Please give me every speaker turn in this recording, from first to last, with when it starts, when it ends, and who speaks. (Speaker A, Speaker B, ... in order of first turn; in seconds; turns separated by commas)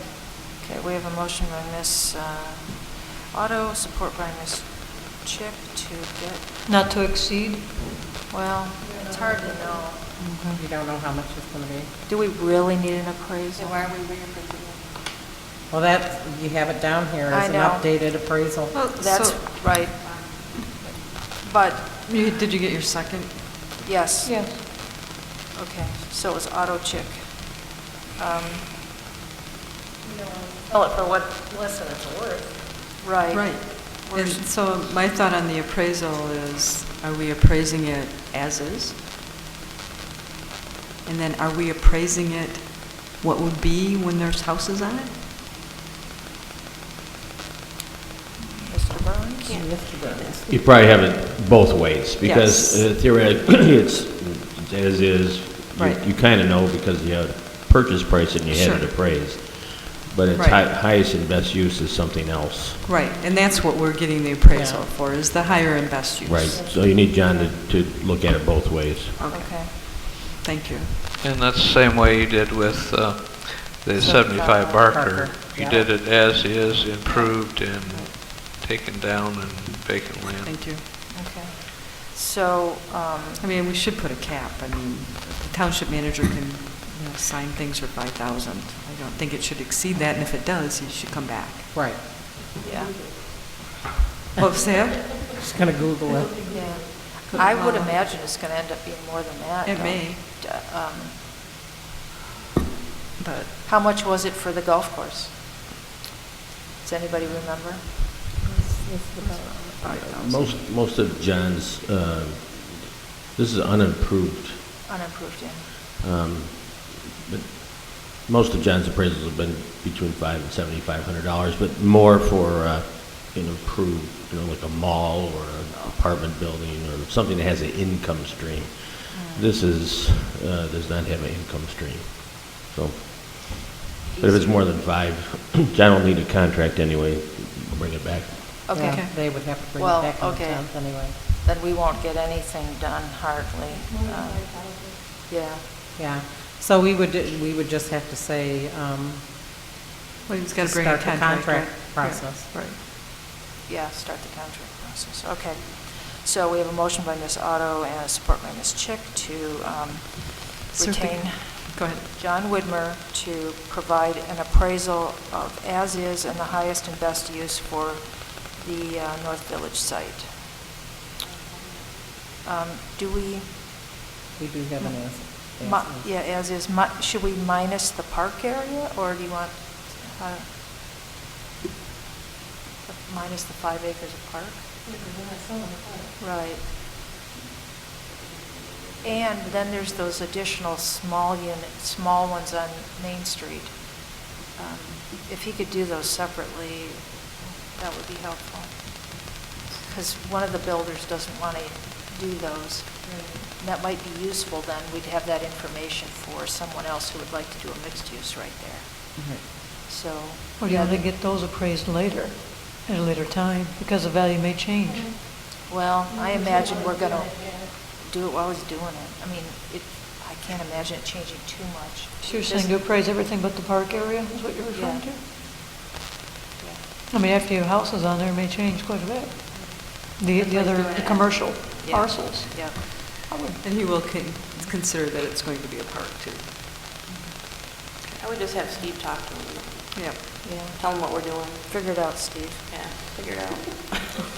Speaker A: 0.6-6.5, Speaker B: 6.7-7.7, Speaker A: 8.3-10.1, Speaker C: 10.2-10.6, Speaker D: 10.5-11.9, Speaker A: 12.1-13.9, Speaker E: 13.6-14.8, Speaker D: 15.7-18.8, Speaker A: 17.3-17.8, Speaker C: 18.7-19.4, Speaker A: 19.0-20.0, Speaker A: 21.4-22.0, Speaker C: 22.0-23.5, Speaker A: 23.8-28.7, Speaker B: 24.2-24.6, Speaker D: 30.7-32.6, Speaker A: 33.0-34.5, Speaker C: 33.3-39.0, Speaker C: 41.0-45.2, Speaker A: 48.5-49.5, Speaker E: 49.4-50.4, Speaker D: 49.4-50.5, Speaker F: 50.5-62.9, Speaker C: 52.2-52.8, Speaker C: 55.8-56.0, Speaker C: 58.5-58.9, Speaker C: 60.3-60.6, Speaker C: 62.8-66.6, Speaker A: 63.0-63.2, Speaker D: 64.5-64.8, Speaker F: 66.2-69.2, Speaker A: 66.5-67.5, Speaker C: 69.2-71.0, Speaker A: 69.3-69.7, Speaker G: 71.2-80.7, Speaker D: 74.0-75.9, Speaker A: 77.1-77.3, Speaker C: 77.8-78.2, Speaker C: 80.4-80.8, Speaker A: 81.1-83.5, Speaker C: 83.4-91.7, Speaker D: 91.7-92.0, Speaker A: 92.6-92.9, Speaker C: 94.3-95.2, Speaker D: 95.3-96.6, Speaker A: 96.5-101.2, Speaker C: 97.3-97.9, Speaker C: 99.6-100.2, Speaker C: 103.2-103.5, Speaker A: 103.6-105.3, Speaker A: 106.8-108.3, Speaker D: 108.4-109.7, Speaker C: 109.2-110.6, Speaker F: 109.8-114.6, Speaker A: 114.8-115.7, Speaker F: 116.0-138.6, Speaker A: 129.1-129.5, Speaker A: 134.1-134.6, Speaker A: 138.7-139.1, Speaker D: 138.7-141.2, Speaker C: 138.8-139.1, Speaker A: 139.8-144.5, Speaker A: 145.2-145.7, Speaker D: 145.9-149.5, Speaker C: 150.2-152.8, Speaker D: 150.6-152.5, Speaker A: 153.7-170.3, Speaker C: 160.8-162.1, Speaker E: 171.2-171.9, Speaker A: 172.4-173.9, Speaker D: 174.3-176.1, Speaker A: 174.8-180.5, Speaker A: 182.8-184.7, Speaker A: 186.2-186.7, Speaker E: 188.2-188.7, Speaker A: 189.0-209.1, Speaker E: 203.1-203.4, Speaker D: 209.2-209.4, Speaker A: 209.8-211.0, Speaker B: 210.6-215.1, Speaker A: 215.6-222.7, Speaker B: 222.2-225.2, Speaker A: 224.7-225.1, Speaker A: 226.6-226.8, Speaker B: 227.1-233.6, Speaker E: 229.5-231.9, Speaker A: 231.8-232.9, Speaker C: 233.6-236.5, Speaker E: 238.2-241.6, Speaker C: 239.9-240.2, Speaker A: 240.4-240.8, Speaker A: 241.7-242.6, Speaker E: 242.7-244.2